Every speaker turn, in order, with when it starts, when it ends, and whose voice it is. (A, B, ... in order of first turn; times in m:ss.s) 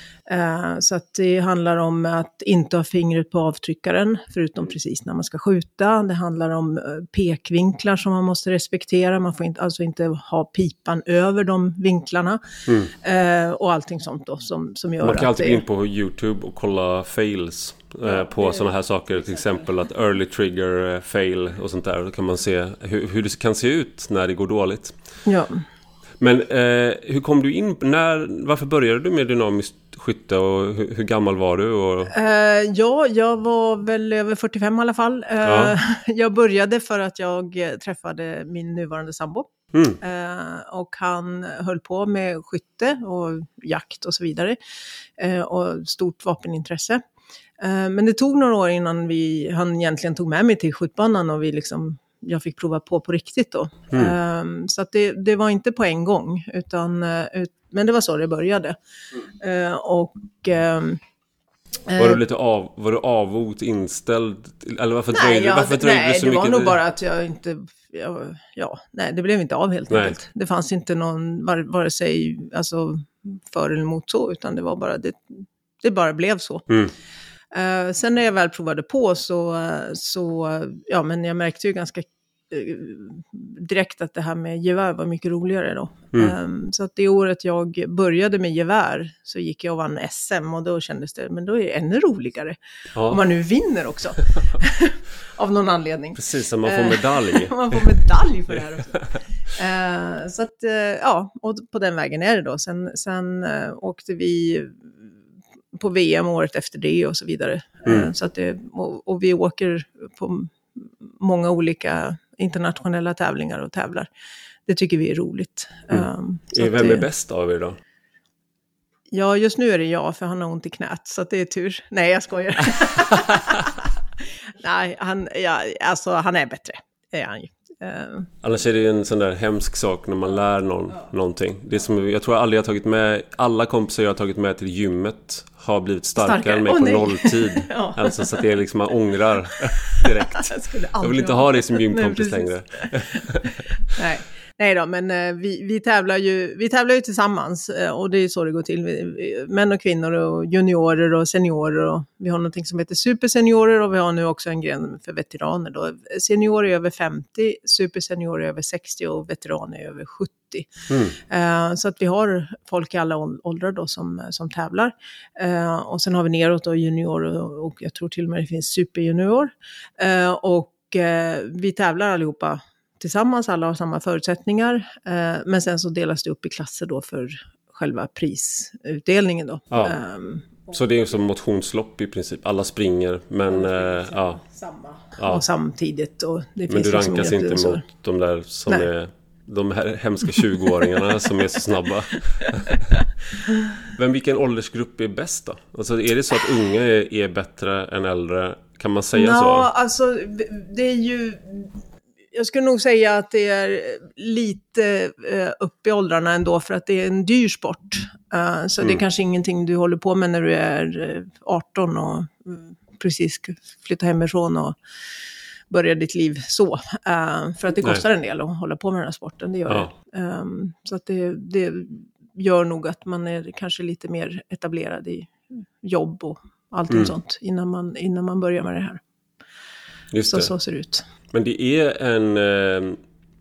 0:00.3-0:12.4 A
0:12.7-0:12.9 B
0:12.9-0:15.6 A
0:15.0-0:25.0 B
0:18.0-0:18.6 A
0:25.2-0:25.6 A
0:26.2-0:32.1 B
0:32.1-0:44.6 A
0:35.4-0:35.7 B
0:39.7-0:40.0 B
0:45.2-0:47.0 A
0:47.6-0:58.8 A
0:59.4-1:01.0 A
1:01.9-1:02.2 A
1:01.9-1:06.8 B
1:05.1-1:16.7 A
1:09.9-1:10.1 B
1:17.5-1:45.1 A
1:32.9-1:33.2 B
1:36.2-1:37.8 B
1:45.7-1:54.1 A
1:47.8-1:48.1 B
1:54.6-1:57.0 A
1:55.9-1:57.8 B
1:59.1-2:08.3 A
2:08.4-2:23.6 B
2:16.2-2:18.4 A
2:19.8-3:00.7 A
2:40.9-2:41.2 B
2:59.7-3:00.0 B
3:00.7-3:04.4 B
3:03.5-3:07.8 A
3:05.2-3:05.4 B
3:06.7-3:12.9 B
3:13.9-3:19.7 B
3:19.1-3:21.7 A
3:22.3-3:34.8 A
3:35.7-3:49.0 A
3:50.1-3:50.5 B
3:50.3-3:51.0 A
3:51.3-3:53.0 B